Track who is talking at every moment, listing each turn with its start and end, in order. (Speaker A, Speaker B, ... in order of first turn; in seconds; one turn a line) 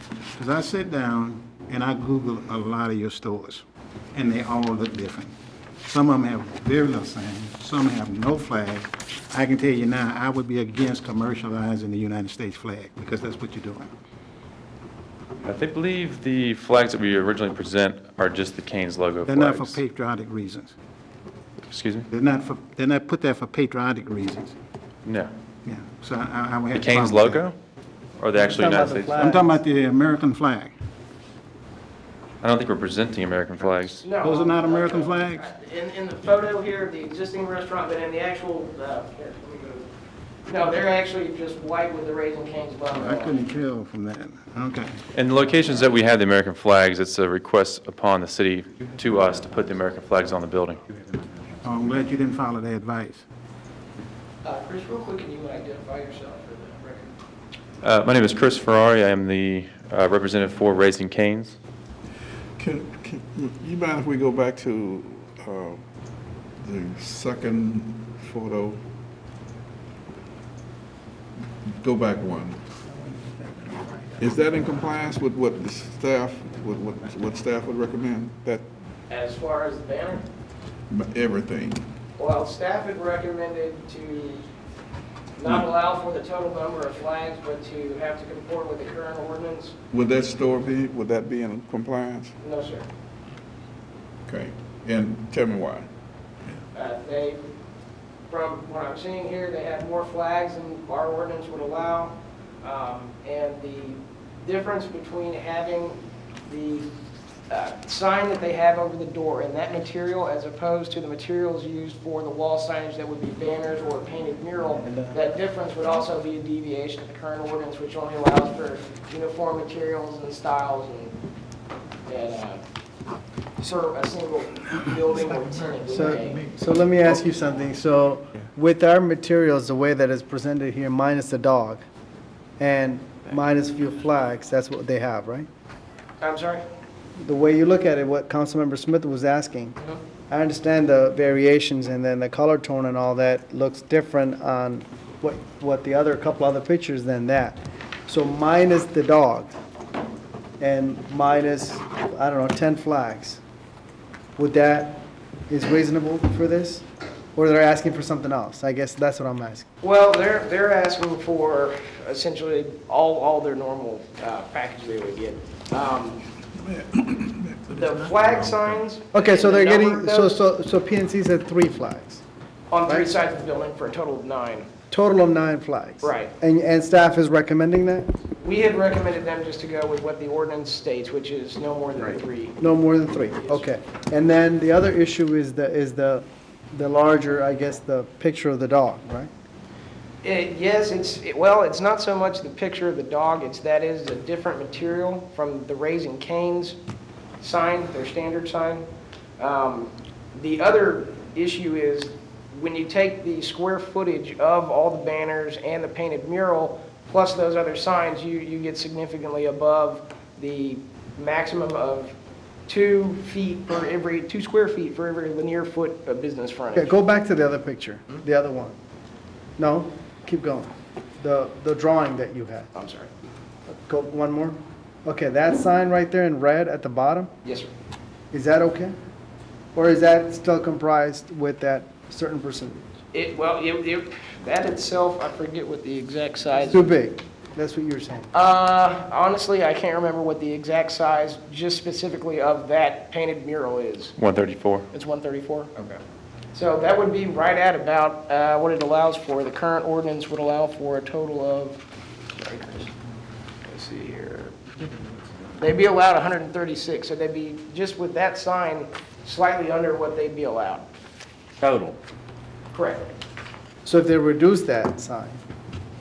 Speaker A: 0.3-3.6
Speaker A: 4.1-13.9
Speaker B: 15.4-19.8
Speaker A: 19.2-20.7
Speaker B: 21.6-22.1
Speaker A: 22.1-24.5
Speaker B: 25.0-25.3
Speaker A: 25.6-27.4
Speaker B: 26.7-27.5
Speaker B: 28.2-29.1
Speaker C: 28.3-29.6
Speaker A: 29.1-30.7
Speaker B: 32.4-34.0
Speaker D: 34.0-39.9
Speaker A: 34.2-35.5
Speaker D: 40.5-43.4
Speaker A: 42.9-45.1
Speaker B: 45.1-50.8
Speaker A: 51.5-53.2
Speaker D: 54.4-57.1
Speaker B: 57.8-61.5
Speaker E: 62.6-65.8
Speaker E: 66.6-68.8
Speaker E: 71.8-72.6
Speaker E: 74.2-78.7
Speaker D: 79.1-80.2
Speaker E: 80.9-81.8
Speaker D: 82.2-84.4
Speaker D: 85.4-89.7
Speaker E: 89.9-92.3
Speaker D: 92.4-92.8
Speaker E: 94.2-95.9
Speaker D: 96.7-97.4
Speaker D: 98.3-106.9
Speaker D: 107.5-121.2
Speaker D: 122.1-122.6
Speaker D: 123.6-126.5
Speaker C: 125.9-131.8
Speaker C: 132.6-135.5
Speaker D: 136.2-136.6
Speaker C: 137.2-139.8
Speaker C: 140.3-149.5
Speaker C: 150.6-153.4
Speaker C: 154.4-159.7
Speaker D: 159.8-166.3
Speaker E: 166.6-168.2
Speaker D: 167.7-170.3
Speaker C: 169.1-172.2
Speaker D: 172.7-174.7
Speaker C: 174.9-178.1
Speaker D: 176.0-176.3
Speaker D: 178.4-182.6
Speaker C: 182.6-189.3
Speaker D: 190.2-196.8
Speaker D: 197.4-198.9
Speaker D: 199.4-212.1
Speaker D: 212.7-216.9
Speaker C: 216.7-218.8
Speaker C: 219.6-222.7
Speaker D: 222.7-223.1
Speaker C: 223.8-227.3
Speaker D: 227.4-227.7
Speaker C: 228.3-228.9
Speaker C: 229.7-232.8
Speaker D: 233.1-236.9
Speaker C: 236.7-238.3
Speaker D: 238.3-244.2
Speaker B: 244.2-244.9
Speaker D: 244.9-245.7
Speaker D: 246.5-251.8
Speaker D: 252.4-252.9
Speaker D: 253.7-254.6
Speaker D: 255.6-260.9
Speaker B: 261.6-261.9
Speaker D: 262.7-263.1
Speaker C: 263.8-265.4